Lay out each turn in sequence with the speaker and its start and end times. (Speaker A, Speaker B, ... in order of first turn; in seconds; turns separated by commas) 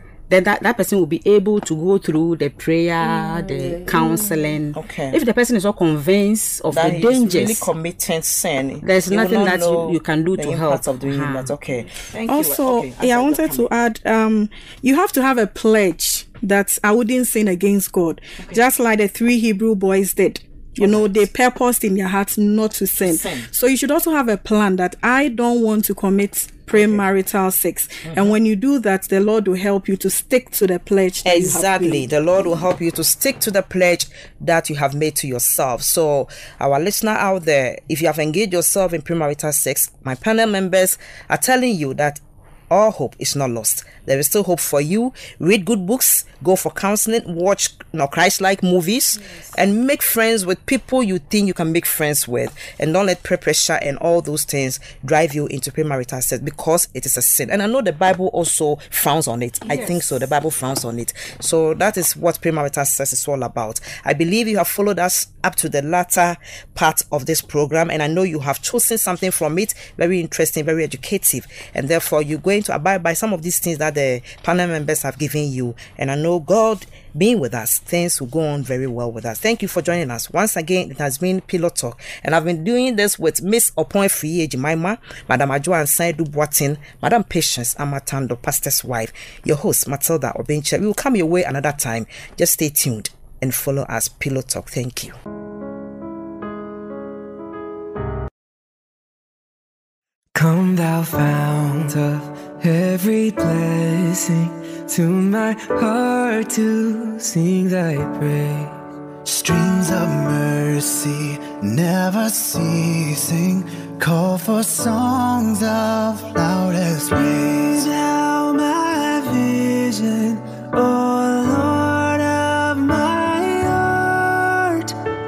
Speaker A: 0.3-7.7, Speaker B: 4.7-5.2, Speaker B: 6.7-13.7, Speaker A: 8.8-11.5, Speaker C: 12.3-32.0, Speaker B: 20.8-21.2, Speaker B: 23.1-23.5, Speaker B: 26.8-27.0, Speaker B: 28.1-28.4, Speaker B: 31.2-95.2, Speaker D: 100.3-108.8, Speaker E: 101.7-102.0, Speaker E: 109.2-117.9, Speaker D: 117.8-124.9